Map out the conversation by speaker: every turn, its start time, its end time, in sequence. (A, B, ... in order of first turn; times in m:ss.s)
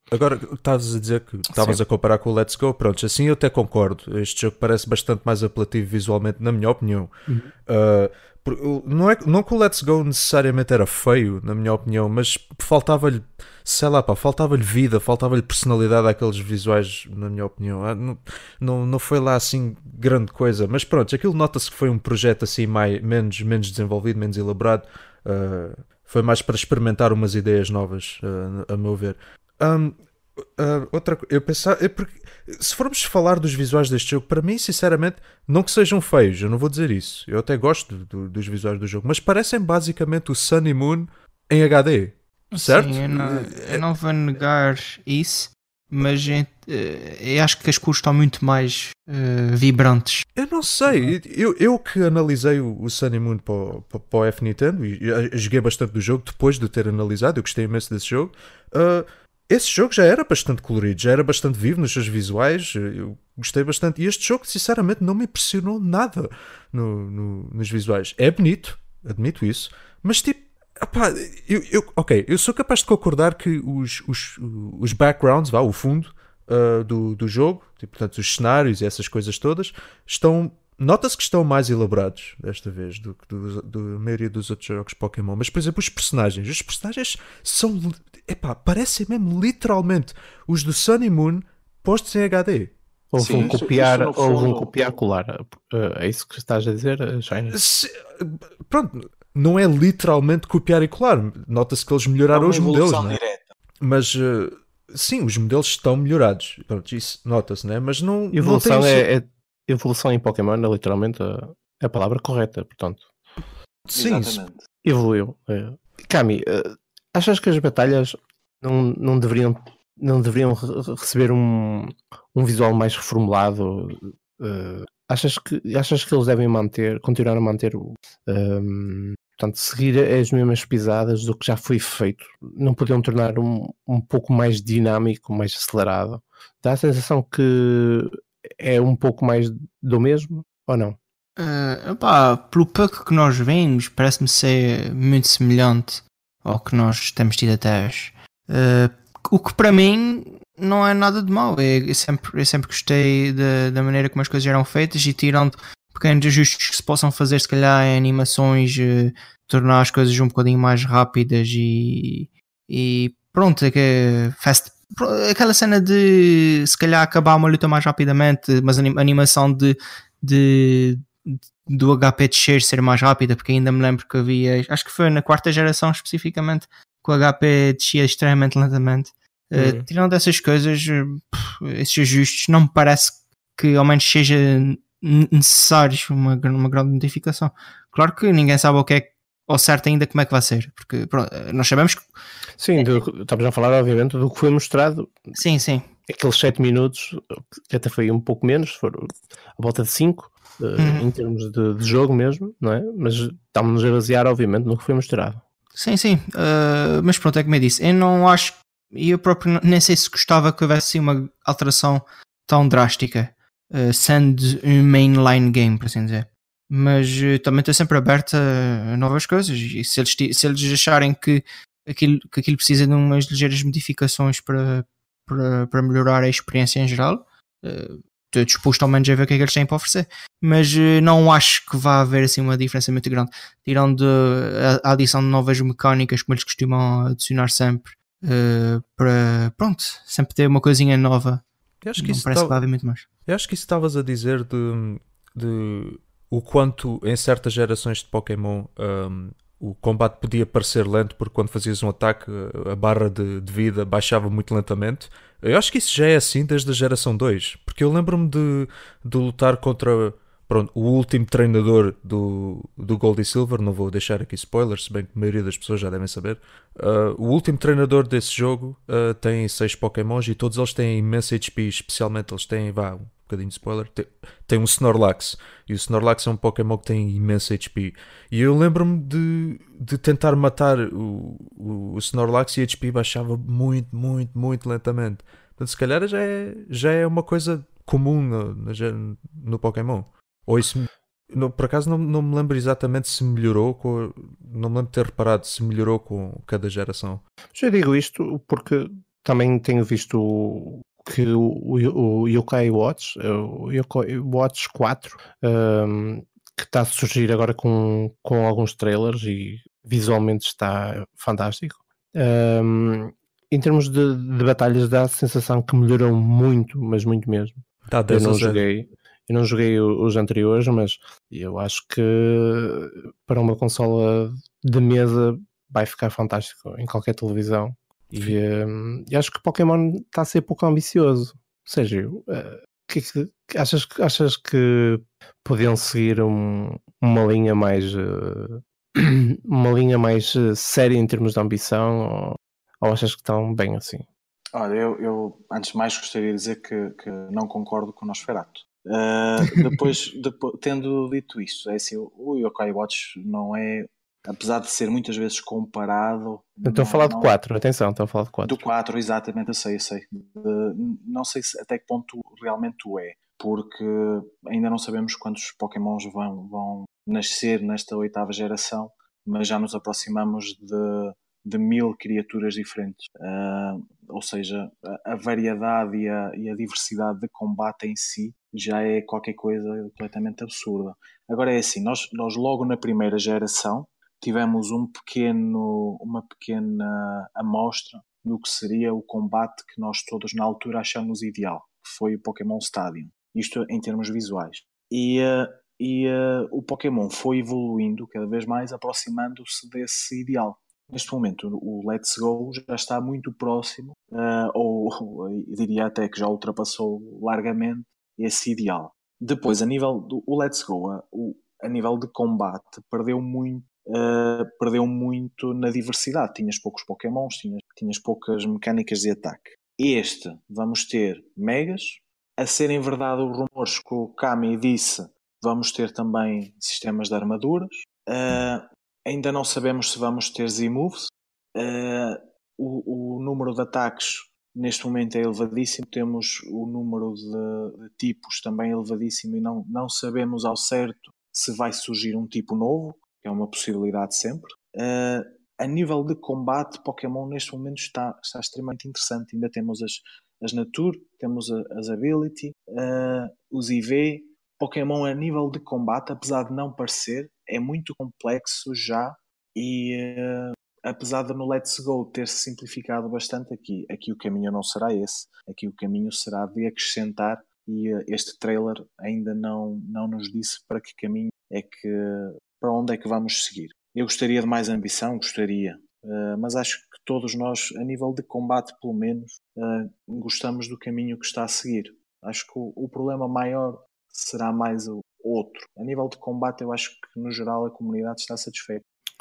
0:00.1-0:07.1 A
0:01.5-0:01.8 B
0:07.7-0:30.0 A
0:30.6-0:43.8 A
0:42.5-0:50.2 C
0:50.4-1:32.7 A
1:33.1-1:37.6 B
1:33.2-1:34.9 D
1:33.3-1:33.6 A
1:37.5-1:43.2 A
1:42.3-1:43.5 D
1:43.8-1:49.0 A
1:48.3-1:53.1 B
1:53.8-1:54.4 A
1:54.0-1:54.6 D
1:54.8-2:21.0 B
2:21.4-3:12.0 C
2:59.6-2:59.8 B
3:12.6-3:15.2 B
3:15.3-3:15.9 C
3:16.1-3:25.4 B
3:20.8-3:21.1 C
3:25.8-4:01.4 C
4:01.8-4:02.6 A
4:02.0-4:03.0 C
4:03.2-4:57.2 A
4:57.5-5:44.0 B
5:17.9-5:18.6 A
5:44.5-5:57.3 D
5:56.6-5:58.6 B
5:58.4-8:08.8 D